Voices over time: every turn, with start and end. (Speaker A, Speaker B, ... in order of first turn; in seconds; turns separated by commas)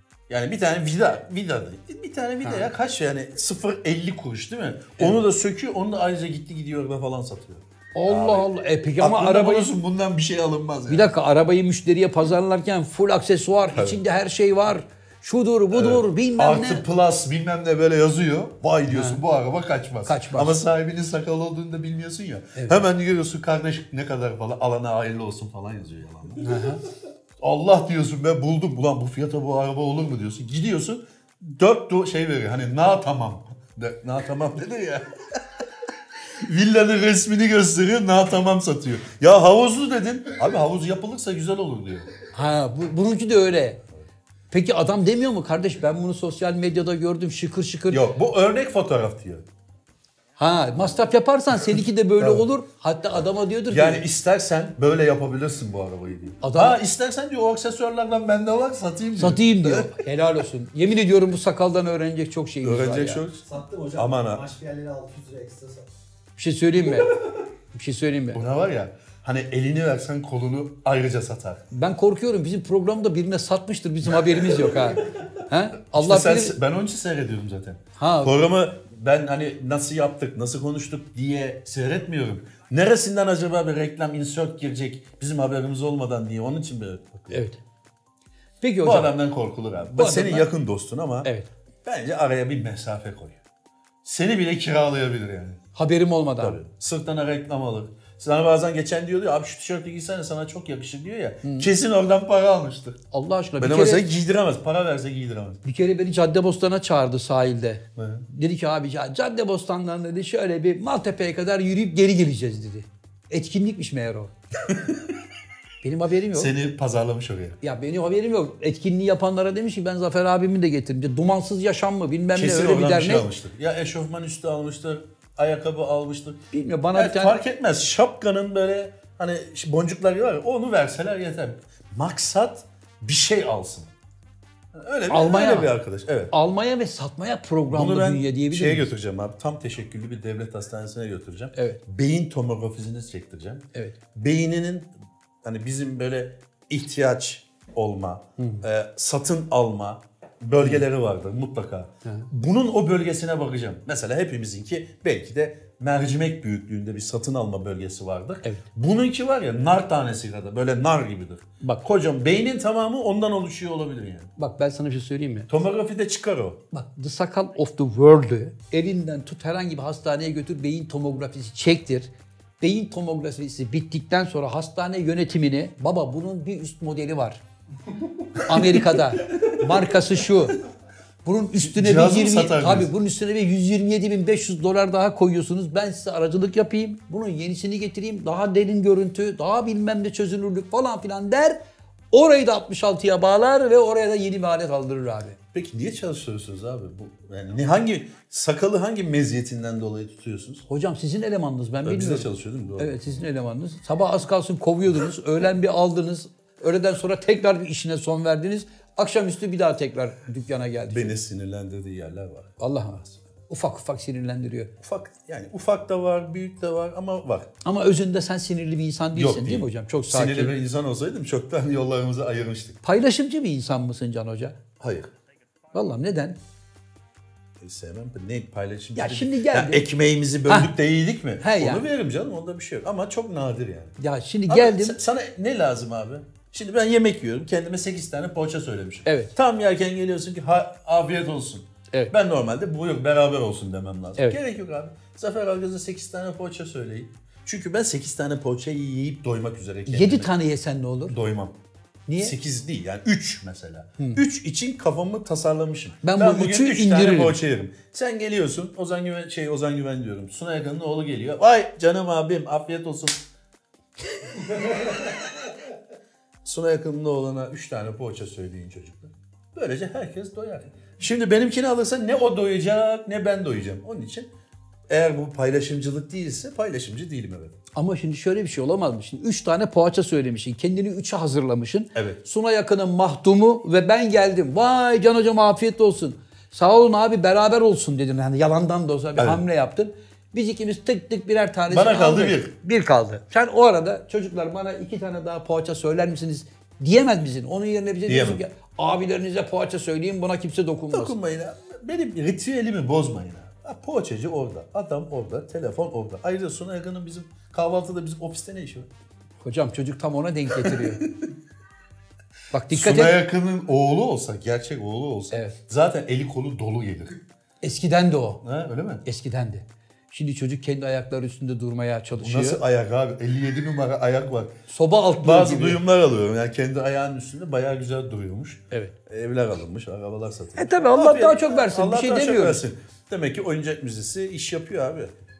Speaker A: 0.3-11.1, Speaker B: 2.4-2.7, Speaker B: 8.0-9.7, Speaker B: 10.9-16.8, Speaker A: 13.7-14.0, Speaker A: 15.7-26.7, Speaker B: 18.9-19.2, Speaker B: 20.1-20.6, Speaker B: 22.6-22.8, Speaker B: 26.4-26.8, Speaker A: 27.4-35.4, Speaker A: 36.3-42.1, Speaker B: 42.3-43.8, Speaker B: 44.5-48.0, Speaker A: 47.9-49.4, Speaker B: 50.4-54.0, Speaker A: 52.2-52.5, Speaker A: 53.7-59.9, Speaker B: 56.4-56.8, Speaker B: 59.2-63.2, Speaker A: 62.6-64.5, Speaker C: 63.5-65.9, Speaker B: 66.4-67.1, Speaker B: 67.7-68.4, Speaker A: 68.3-71.6, Speaker B: 71.7-76.5, Speaker A: 74.2-74.6, Speaker A: 75.9-87.4, Speaker B: 78.0-78.4, Speaker B: 87.3-87.6, Speaker B: 88.6-89.1, Speaker A: 88.8-91.3, Speaker B: 89.9-90.5, Speaker A: 91.8-93.4, Speaker A: 94.0-95.6, Speaker B: 95.7-96.6, Speaker A: 96.4-103.0, Speaker B: 101.4-101.7, Speaker B: 103.1-104.1, Speaker A: 103.6-105.6, Speaker B: 105.6-114.3, Speaker A: 108.0-108.3, Speaker A: 114.7-115.2, Speaker B: 115.8-116.5, Speaker A: 116.3-117.6, Speaker B: 117.6-123.3, Speaker A: 122.3-126.4, Speaker B: 126.5-127.4, Speaker A: 126.9-133.9, Speaker A: 134.7-136.3, Speaker B: 135.1-135.7, Speaker B: 136.3-138.9, Speaker A: 137.7-144.9, Speaker B: 141.6-141.8, Speaker A: 145.4-164.3, Speaker B: 148.4-148.6, Speaker B: 164.4-165.5, Speaker A: 165.5-166.6, Speaker B: 166.7-177.4, Speaker B: 178.4-180.6, Speaker B: 181.2-191.6, Speaker A: 181.6-182.9, Speaker B: 192.1-195.4, Speaker A: 195.5-200.6, Speaker B: 200.7-211.1, Speaker A: 201.8-203.0, Speaker A: 210.9-212.6, Speaker B: 212.6-214.7, Speaker A: 214.8-217.5, Speaker B: 217.6-220.5, Speaker A: 219.1-222.8, Speaker B: 222.8-224.6, Speaker A: 224.8-225.1, Speaker B: 225.7-226.4, Speaker A: 227.6-233.9, Speaker B: 228.9-229.9, Speaker B: 230.5-230.7, Speaker B: 231.4-231.8, Speaker B: 234.0-235.0, Speaker A: 234.5-250.3, Speaker B: 239.1-239.3, Speaker B: 249.9-251.2, Speaker A: 251.1-251.6, Speaker B: 252.1-252.3, Speaker A: 252.2-263.2, Speaker B: 256.0-257.4, Speaker A: 264.4-265.2, Speaker A: 266.4-274.3, Speaker A: 274.9-277.6, Speaker B: 277.7-301.1, Speaker A: 289.1-289.4, Speaker A: 291.7-292.5, Speaker A: 298.1-298.4, Speaker A: 300.9-308.9, Speaker B: 309.4-311.0, Speaker A: 310.6-311.3, Speaker B: 312.5-313.2, Speaker A: 312.7-317.2, Speaker B: 317.6-318.4, Speaker A: 318.4-319.0, Speaker B: 319.1-322.6, Speaker A: 322.2-324.6, Speaker B: 324.7-325.8, Speaker A: 325.2-335.1, Speaker B: 330.6-332.6